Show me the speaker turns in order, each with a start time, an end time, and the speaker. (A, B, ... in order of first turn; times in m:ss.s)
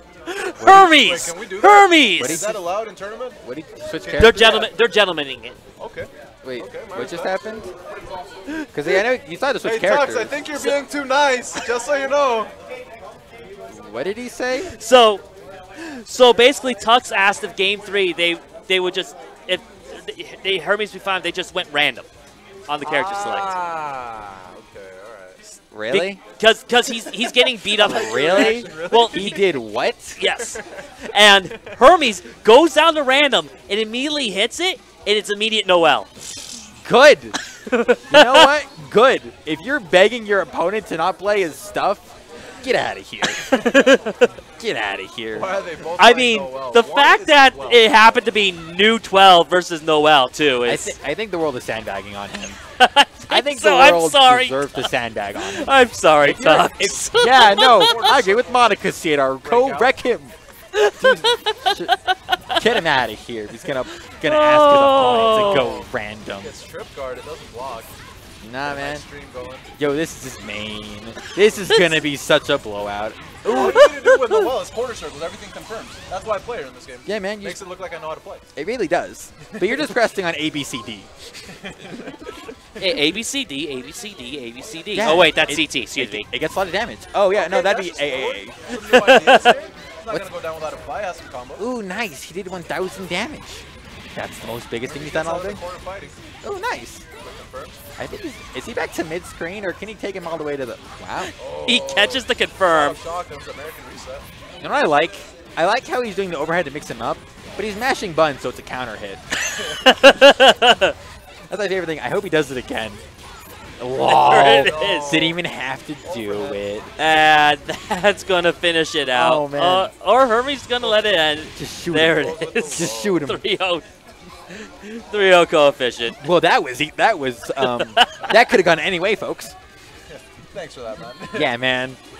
0:00.3-0:02.5 A
0:00.6-0:00.9 B
0:00.9-0:03.4 C
0:02.2-0:02.6 B
0:03.4-0:04.6 B
0:04.0-0:04.7 C
0:04.2-0:05.6 A
0:05.8-0:07.4 C
0:06.4-0:07.7 B
0:08.7-0:10.4 B
0:09.6-0:12.5 C
0:13.7-0:14.8 B
0:14.6-0:15.2 A
0:15.8-0:22.1 A
0:22.7-0:23.6 A
0:22.8-0:25.4 C
0:25.6-0:26.2 B
0:25.9-0:29.4 A
0:27.0-0:29.5 C
0:27.8-0:30.2 B
0:30.2-0:36.1 A
0:30.2-0:30.9 C
0:36.8-0:37.4 B
0:37.7-0:38.5 A
0:38.1-0:43.6 B
0:43.3-0:44.3 A
0:44.6-0:45.6 B
0:45.3-0:47.9 C
0:46.0-0:51.0 A
0:50.6-0:52.6 B
0:52.8-0:57.9 A
0:53.3-1:01.9 B
0:57.3-0:58.8 C
0:59.4-0:59.9 C
1:00.7-1:02.6 A
1:02.6-1:06.5 B
1:04.2-1:05.8 A
1:05.4-1:07.9 C
1:08.4-1:09.0 B
1:08.6-1:09.7 C
1:09.8-1:13.9 B
1:13.4-1:14.4 A
1:13.4-1:18.4 C
1:17.0-1:17.6 B
1:18.6-1:22.2 B
1:19.5-1:20.0 C
1:21.5-1:22.1 C
1:22.8-1:23.1 C
1:22.8-1:26.2 A
1:24.9-1:28.6 B
1:27.3-1:31.6 C
1:28.7-1:29.4 A
1:31.6-1:35.6 B
1:34.7-1:36.2 C
1:36.4-1:37.0 B
1:37.2-1:37.8 C
1:38.0-1:41.3 B
1:41.2-1:43.0 A
1:41.4-1:44.2 C
1:44.6-1:49.2 B
1:49.7-1:50.9 A
1:51.5-1:53.0 B
1:53.8-1:56.9 B
1:54.0-1:55.2 A
1:54.3-1:55.4 C
1:56.0-1:56.6 C
1:57.0-2:03.8 A
1:59.1-1:59.9 B
2:00.8-2:01.2 C
2:01.5-2:03.4 B
2:02.1-2:03.2 C
2:04.5-2:06.2 A
2:06.2-2:09.6 B
2:07.6-2:08.3 A
2:10.1-2:11.5 C
2:11.3-2:12.0 B